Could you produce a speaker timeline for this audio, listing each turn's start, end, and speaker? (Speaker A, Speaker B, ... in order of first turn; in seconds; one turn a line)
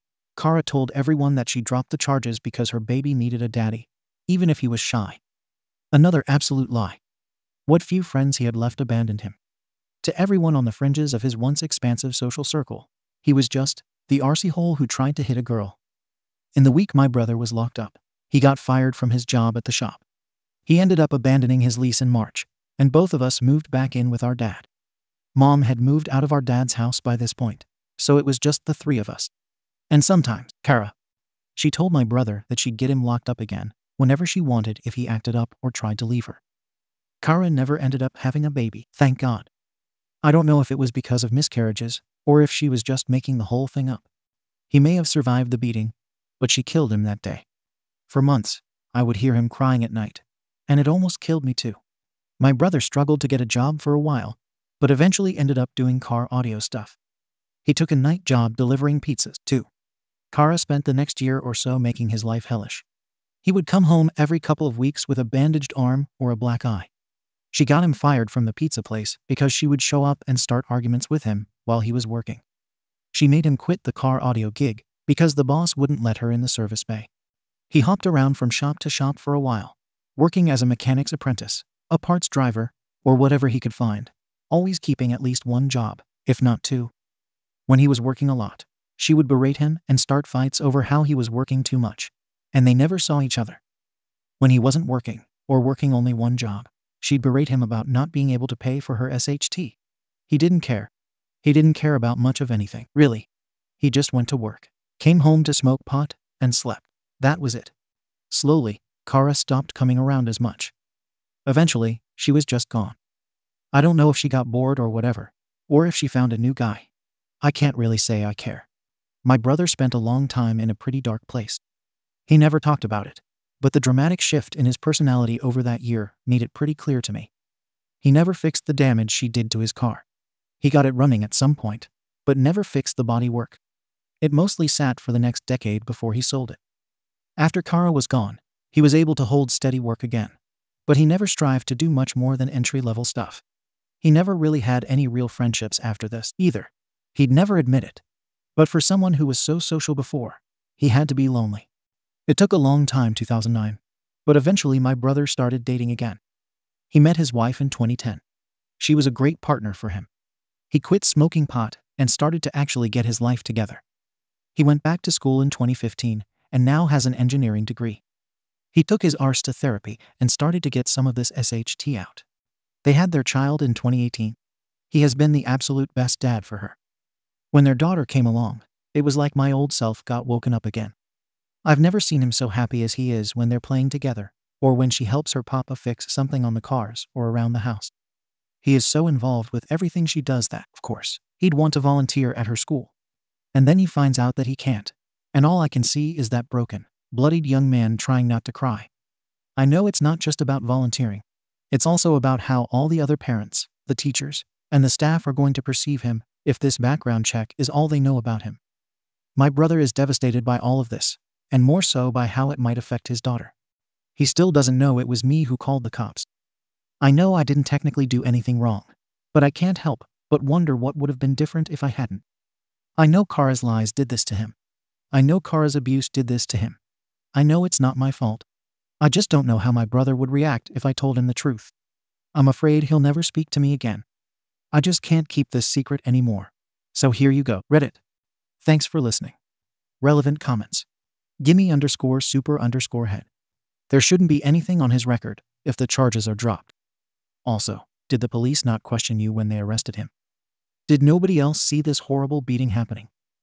Speaker A: 0.3-5.2
Speaker A: 5.9-7.0
Speaker A: 7.7-9.4
Speaker A: 10.0-15.8
Speaker A: 16.6-20.0
Speaker A: 20.6-24.7
Speaker A: 25.3-29.3
Speaker A: 29.9-30.9
Speaker A: 31.6-36.4
Speaker A: 37.2-39.5
Speaker A: 40.2-44.0
Speaker A: 44.7-47.4
Speaker A: 48.1-51.8
Speaker A: 52.4-57.0
Speaker A: 57.6-59.7
Speaker A: 60.3-62.8
Speaker A: 63.4-66.9
Speaker A: 67.5-72.4
Speaker A: 73.1-77.1
Speaker A: 77.7-86.9
Speaker A: 87.7-93.6
Speaker A: 94.4-99.8
Speaker A: 100.3-100.9
Speaker A: 101.4-103.3
Speaker A: 103.8-107.7
Speaker A: 108.3-110.7
Speaker A: 111.5-113.0
Speaker A: 113.7-116.9
Speaker A: 117.4-118.7
Speaker A: 119.2-121.6
Speaker A: 122.3-127.3
Speaker A: 128.0-130.0
Speaker A: 130.6-133.6
Speaker A: 134.2-136.6
Speaker A: 137.4-143.4
Speaker A: 144.0-148.0
Speaker A: 148.6-151.7
Speaker A: 152.3-156.2
Speaker A: 156.9-158.2
Speaker A: 158.8-160.1
Speaker A: 160.7-163.8
Speaker A: 164.5-168.0
Speaker A: 168.7-172.2
Speaker A: 172.8-174.4
Speaker A: 174.9-176.8
Speaker A: 177.5-180.9
Speaker A: 181.6-187.9
Speaker A: 188.6-192.9
Speaker A: 193.5-198.9
Speaker A: 199.6-208.6
Speaker A: 209.3-213.5
Speaker A: 214.2-216.3
Speaker A: 217.0-222.2
Speaker A: 223.0-224.5
Speaker A: 225.1-226.8
Speaker A: 227.3-228.4
Speaker A: 229.0-231.7
Speaker A: 232.3-234.0
Speaker A: 234.7-238.0
Speaker A: 238.6-239.3
Speaker A: 240.0-240.8
Speaker A: 241.4-243.3
Speaker A: 243.9-246.7
Speaker A: 247.4-250.1
Speaker A: 250.9-253.1